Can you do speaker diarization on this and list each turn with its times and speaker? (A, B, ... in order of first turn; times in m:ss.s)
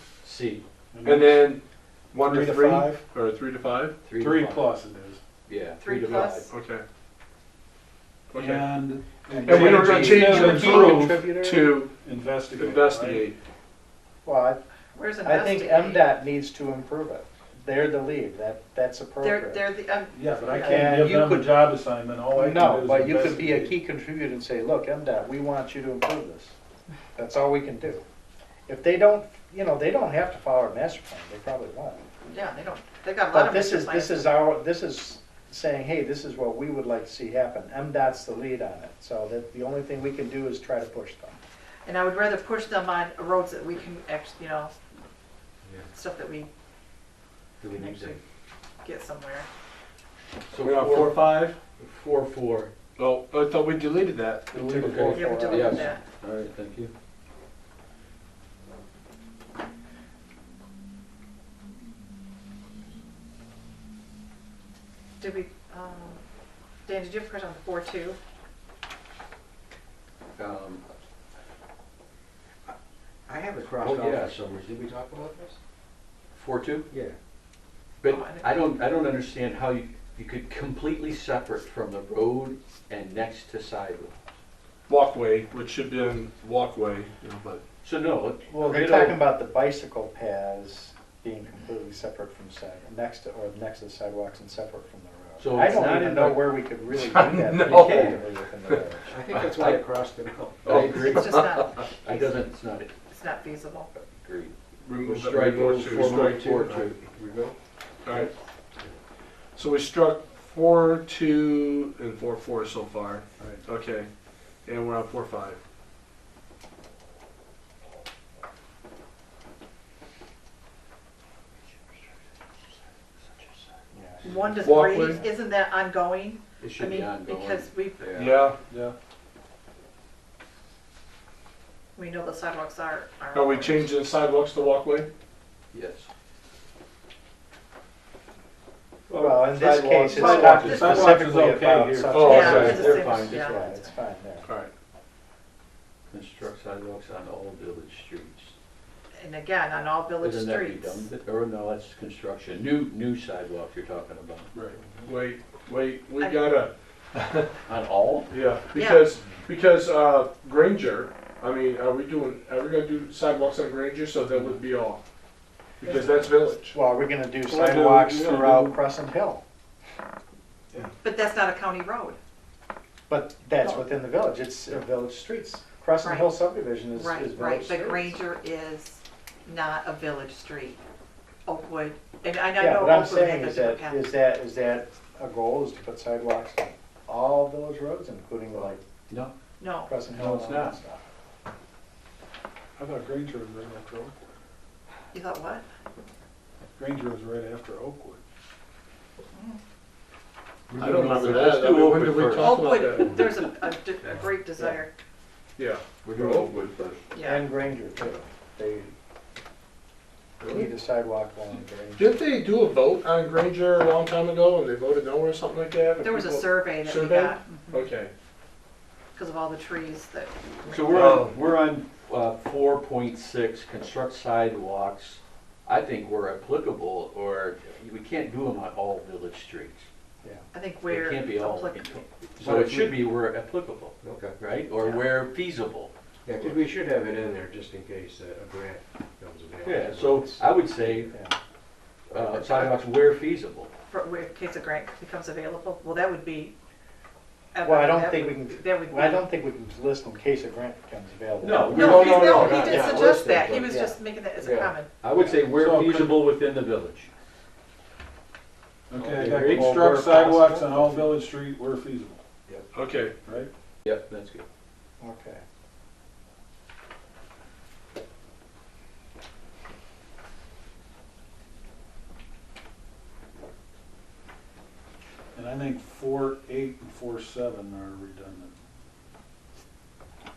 0:00.2-0:00.6 A
0:00.9-0:01.4 B
0:01.0-0:01.6 C
0:02.1-0:04.0 C
0:02.2-0:03.0 B
0:04.0-0:04.6 A
0:04.2-0:05.2 B
0:05.5-0:06.5 A
0:05.8-0:06.5 D
0:06.5-0:06.8 C
0:08.3-0:08.7 C
0:08.3-0:11.2 B
0:09.3-0:11.7 E
0:09.4-0:11.9 C
0:12.0-0:13.2 B
0:12.6-0:13.3 C
0:14.2-0:14.6 E
0:14.9-0:16.1 D
0:15.2-0:19.6 E
0:19.2-0:20.9 D
0:20.1-0:23.8 B
0:20.6-0:21.5 E
0:22.3-0:26.5 E
0:27.1-0:28.0 E
0:28.7-0:32.0 E
0:32.2-0:34.4 D
0:33.3-0:41.4 E
0:41.8-0:44.7 D
0:45.9-0:46.5 D
0:47.6-0:48.2 D
0:47.8-0:48.1 F
0:48.8-0:49.5 D
0:50.5-0:52.7 A
0:50.6-0:51.6 C
0:53.0-0:55.2 C
0:54.5-0:56.0 E
0:54.8-0:56.9 A
0:55.1-0:56.1 D
1:05.2-1:06.2 D
1:06.8-1:08.2 D
1:10.4-1:10.8 A
1:13.3-1:15.6 F
1:13.8-1:14.6 A
1:16.3-1:16.9 A
1:16.9-1:17.1 F
1:18.0-1:24.2 A
1:18.1-1:18.6 D
1:24.9-1:27.6 C
1:27.8-1:29.2 A
1:28.5-1:39.2 E
1:35.4-1:36.5 A
1:36.9-1:39.5 C
1:37.6-1:38.2 F
1:37.8-1:38.2 A
1:39.1-1:40.9 F
1:39.5-1:39.8 A
1:40.6-1:41.6 C
1:40.6-1:43.0 A
1:40.9-1:43.9 D
1:43.9-1:46.9 A
1:44.8-1:46.9 C
1:46.2-1:47.6 F
1:48.0-1:48.3 C
1:49.6-1:54.1 C
1:54.7-1:55.6 C
2:02.6-2:03.7 A
2:03.9-2:05.2 E
2:04.2-2:08.2 D
2:04.6-2:05.3 C
2:06.6-2:08.5 A
2:08.2-2:08.6 C
2:08.7-2:08.9 B
2:11.9-2:13.9 D
2:13.3-2:15.1 C
2:15.7-2:16.1 A
2:19.1-2:20.0 A
2:19.2-2:24.5 E
2:19.6-2:22.6 B
2:20.2-2:21.1 D
2:20.6-2:21.1 A
2:22.1-2:22.9 C
2:22.3-2:23.9 D
2:22.4-2:22.8 F
2:22.5-2:23.5 A
2:24.4-2:24.7 C
2:26.1-2:28.5 A
2:29.2-2:31.1 D
2:30.2-2:34.5 A
2:35.0-2:37.5 C
2:36.2-2:36.5 D
2:37.6-2:38.3 A
2:38.3-2:45.0 C
2:38.7-2:39.1 D
2:45.8-2:46.8 C
2:46.7-2:49.4 E
2:47.5-2:48.8 B
2:51.0-2:52.2 D
2:53.1-2:58.2 E
2:56.0-2:56.4 D
2:56.9-3:00.8 D
3:01.4-3:04.1 D
3:02.6-3:08.8 E
3:08.5-3:09.3 A
3:09.6-3:10.0 D
3:09.8-3:11.0 E
3:10.1-3:10.8 A
3:12.8-3:14.1 B
3:15.1-3:15.7 D
3:16.8-3:18.2 B
3:19.3-3:19.6 D
3:20.7-3:22.6 A
3:20.8-3:23.5 C
3:22.3-3:24.9 D
3:25.6-3:26.6 C
3:26.0-3:27.1 A
3:27.1-3:27.5 D
3:27.2-3:28.9 E
3:30.4-3:30.7 C
3:30.5-3:32.2 E
3:32.0-3:38.1 C
3:36.0-3:37.9 D
3:39.2-3:40.9 D
3:40.7-3:49.9 A
3:40.9-3:41.4 C
3:50.5-3:52.0 D
3:50.9-3:55.9 A
3:52.4-3:53.0 F
3:54.0-3:54.4 F
3:54.7-3:55.1 D
3:56.2-4:01.1 F
3:59.6-4:01.1 A
4:01.1-4:01.4 E
4:02.1-4:03.7 A
4:02.2-4:02.4 F
4:03.9-4:06.5 D
4:07.5-4:09.2 D
4:07.6-4:11.9 E
4:11.4-4:13.8 A
4:11.7-4:12.9 F
4:11.8-4:15.0 D
4:13.7-4:13.9 E
4:14.4-4:17.1 A
4:15.5-4:16.2 B
4:18.9-4:22.2 B
4:19.0-4:21.1 A
4:19.3-4:20.2 F
4:22.7-4:23.1 C
4:23.2-4:23.5 B
4:23.8-4:24.4 A
4:25.0-4:25.4 E
4:35.3-4:38.5 B